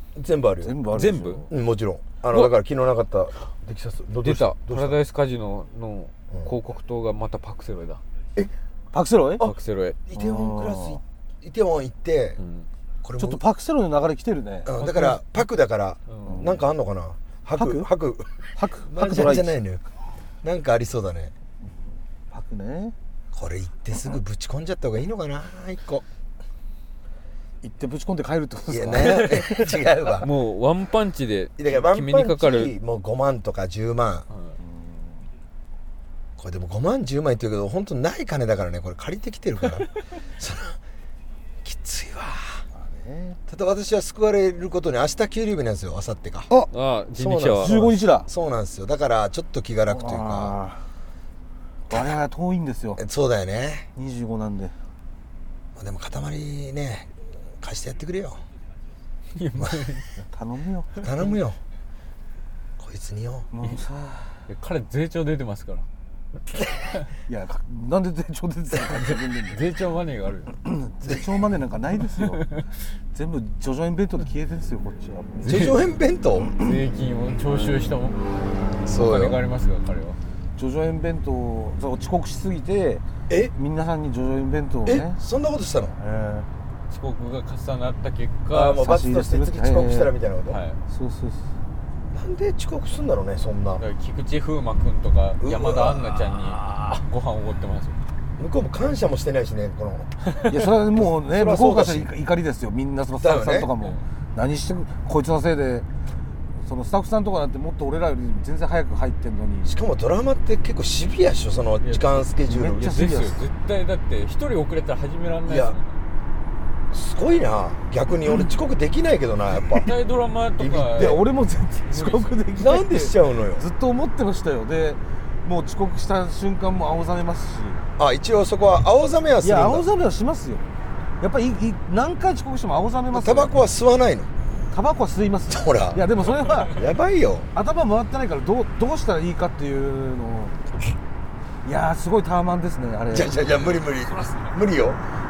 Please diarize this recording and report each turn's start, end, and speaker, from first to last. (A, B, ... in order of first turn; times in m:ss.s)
0:00.1-0:00.7 A
0:00.6-0:01.5 B
0:00.9-0:01.4 C
0:01.5-0:05.0 A
0:04.2-0:08.0 C
0:08.9-0:09.5 B
0:09.4-0:10.0 C
0:10.1-0:12.4 A
0:10.1-0:11.0 B
0:12.4-0:12.7 C
0:13.0-0:13.4 A
0:13.2-0:14.7 B
0:14.6-0:19.8 A
0:14.8-0:15.2 C
0:16.1-0:16.3 C
0:16.2-0:16.6 B
0:17.6-0:17.9 B
0:18.6-0:19.6 B
0:20.4-0:21.3 A
0:22.3-0:22.9 B
0:23.3-0:26.0 A
0:27.6-0:29.8 B
0:28.7-0:30.3 A
0:30.2-0:32.7 C
0:31.6-0:34.3 A
0:34.3-0:34.6 C
0:34.6-0:35.2 B
0:36.4-0:40.8 A
0:41.6-0:42.6 A
0:42.7-0:43.4 B
0:43.5-0:46.5 A
0:46.7-0:47.8 C
0:47.1-0:50.6 A
0:47.6-0:48.3 B
0:49.9-0:50.8 B
0:51.9-0:53.0 B
0:53.0-0:53.9 A
0:54.0-0:54.7 B
0:55.8-0:58.4 A
0:59.4-1:00.2 C
0:59.6-0:59.9 A
1:00.3-1:01.3 B
1:01.0-1:01.6 A
1:02.8-1:03.5 A
1:03.5-1:04.4 B
1:04.5-1:05.8 C
1:07.3-1:09.7 B
1:08.9-1:10.5 C
1:10.6-1:12.6 B
1:11.0-1:11.3 A
1:13.1-1:15.5 B
1:15.4-1:16.5 A
1:15.4-1:15.8 C
1:16.5-1:18.2 C
1:18.8-1:19.4 A
1:18.9-1:20.2 C
1:20.6-1:25.2 B
1:24.8-1:26.0 A
1:26.0-1:26.5 B
1:26.9-1:28.8 C
1:28.5-1:30.6 A
1:28.8-1:30.2 B
1:30.5-1:30.8 C
1:30.9-1:31.5 B
1:32.1-1:33.8 A
1:33.8-1:38.0 C
1:35.4-1:37.0 A
1:38.4-1:40.1 A
1:40.5-1:45.9 B
1:41.0-1:42.1 A
1:43.2-1:43.7 A
1:46.6-1:49.8 B
1:49.6-1:52.9 A
1:51.8-1:52.2 C
1:52.5-1:53.4 B
1:52.7-1:56.0 C
1:55.4-1:55.8 A
1:56.9-1:59.9 A
1:59.8-2:01.2 C
2:00.6-2:01.2 A
2:00.9-2:07.8 B
2:01.9-2:02.4 C
2:02.5-2:03.6 A
2:08.0-2:09.9 A
2:09.4-2:10.7 B
2:11.2-2:13.6 B
2:13.1-2:14.3 A
2:14.7-2:16.8 B
2:15.5-2:16.0 A
2:16.6-2:17.5 A
2:17.5-2:20.6 B
2:21.6-2:23.6 B
2:23.1-2:25.0 A